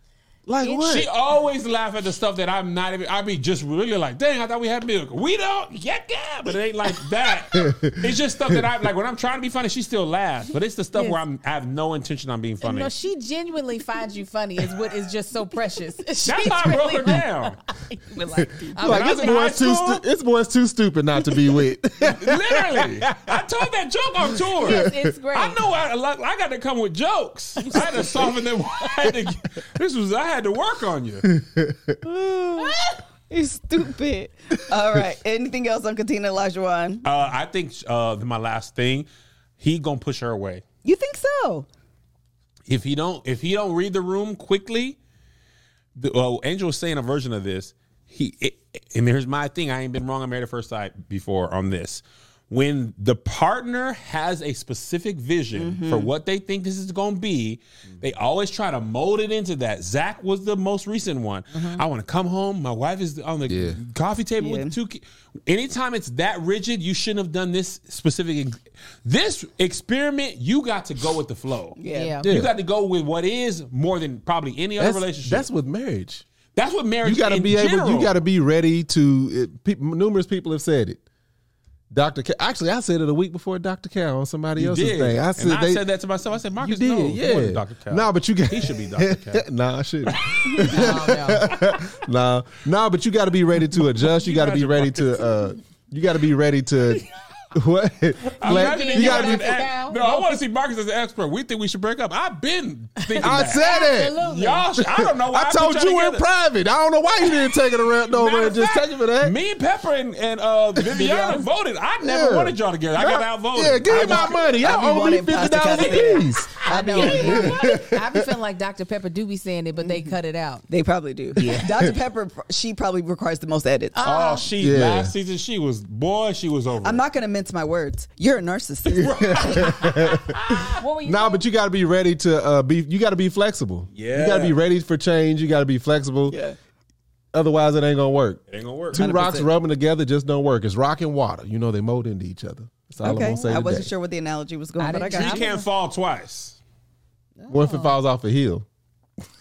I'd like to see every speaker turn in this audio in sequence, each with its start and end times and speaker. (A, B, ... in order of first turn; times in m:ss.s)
0:00.5-0:01.1 A
0:00.7-0:12.9 B
0:07.5-0:08.6 A
0:11.0-0:11.2 C
0:12.6-0:19.6 C
0:16.2-0:17.6 B
0:18.7-0:23.4 A
0:18.8-0:20.0 B
0:22.0-0:31.3 B
0:24.6-0:25.6 C
0:24.6-0:25.1 A
0:27.7-0:28.0 C
0:31.4-0:32.0 A
0:32.0-0:32.8 D
0:32.6-0:33.0 C
0:33.3-0:37.0 D
0:37.0-0:39.1 B
0:39.6-0:40.6 B
0:40.8-0:41.7 D
0:42.7-0:45.0 B
0:46.0-1:15.5 B
0:55.6-0:56.1 D
1:01.5-1:01.8 C
1:03.5-1:03.8 A
1:04.4-1:04.8 D
1:11.8-1:12.2 D
1:11.9-1:12.3 C
1:12.2-1:12.5 A
1:14.8-1:16.2 A
1:16.6-1:18.2 B
1:17.0-1:21.0 A
1:21.9-1:25.8 A
1:24.6-1:29.4 B
1:26.6-1:39.6 A
1:30.0-1:30.6 B
1:30.6-1:31.5 C
1:31.5-1:31.8 B
1:34.0-1:35.3 B
1:38.4-1:43.6 B
1:38.4-1:40.4 C
1:43.0-1:44.7 C
1:43.2-1:44.2 A
1:44.2-1:46.2 B
1:44.8-1:49.4 A
1:48.1-1:54.4 B
1:52.0-1:58.4 A
1:53.9-1:57.6 D
1:55.6-1:57.1 B
1:56.6-2:00.6 C
1:59.8-2:00.1 D
2:00.7-2:04.0 D
2:01.4-2:01.7 B
2:01.4-2:01.9 A
2:03.9-2:04.5 C
2:04.0-2:07.0 B
2:04.6-2:05.1 A
2:06.8-2:09.6 D
2:08.9-2:10.8 B
2:09.0-2:16.4 A
2:10.8-2:11.4 C
2:13.9-2:14.6 B
2:16.3-2:16.6 D
2:17.3-2:18.4 A
2:18.5-2:19.0 B
2:18.9-2:23.9 A
2:19.0-2:19.5 D
2:23.0-2:25.5 D
2:24.8-2:25.7 C
2:25.1-2:26.6 B
2:27.4-2:28.0 C
2:27.5-2:28.6 A